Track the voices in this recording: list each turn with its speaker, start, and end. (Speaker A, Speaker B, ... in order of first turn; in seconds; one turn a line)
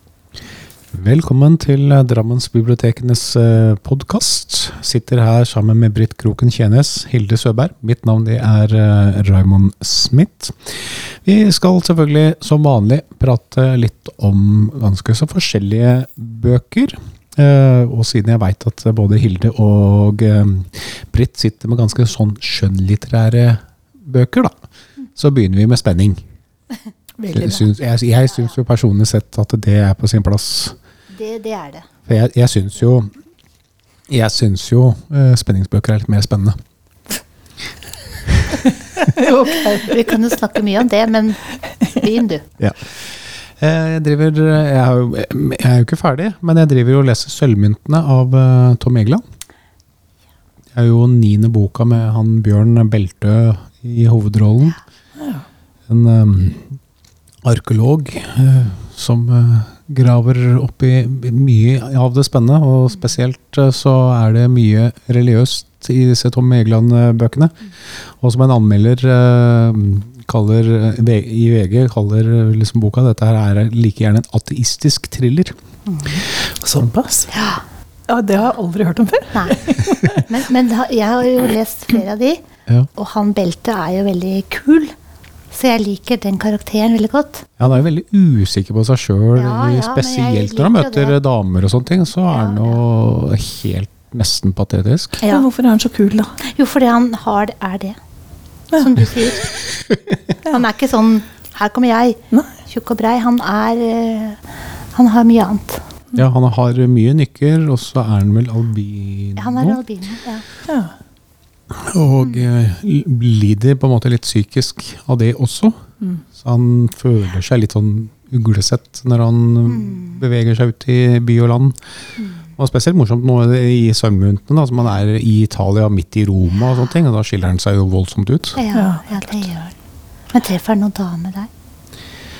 Speaker A: 0.9-24.5
Speaker A: 25.1-26.2
Speaker B: 27.2-27.6
Speaker A: 27.3-30.8
Speaker C: 31.1-31.9
Speaker A: 32.1-33.1
Speaker A: 34.1-36.5
Speaker B: 39.0-40.1
Speaker C: 39.5-42.5
Speaker A: 42.6-49.2
Speaker A: 50.7-54.8
Speaker B: 55.2-55.5
Speaker A: 55.9-56.8
Speaker A: 57.4-75.5
Speaker C: 75.8-76.2
Speaker B: 76.6-77.3
Speaker C: 77.3-77.6
Speaker B: 78.1-80.2
Speaker C: 79.3-82.4
Speaker C: 82.9-84.9
Speaker C: 85.5-87.6
Speaker A: 87.6-95.2
Speaker C: 89.3-91.2
Speaker C: 92.3-92.8
Speaker B: 95.2-96.4
Speaker C: 96.5-98.0
Speaker C: 98.8-99.5
Speaker C: 100.4-105.8
Speaker A: 106.1-109.8
Speaker C: 109.4-110.4
Speaker B: 110.7-110.9
Speaker A: 111.7-115.8
Speaker A: 116.3-121.8
Speaker C: 119.7-120.2
Speaker A: 122.6-128.6
Speaker C: 128.5-129.7
Speaker B: 128.7-129.1
Speaker C: 130.3-131.5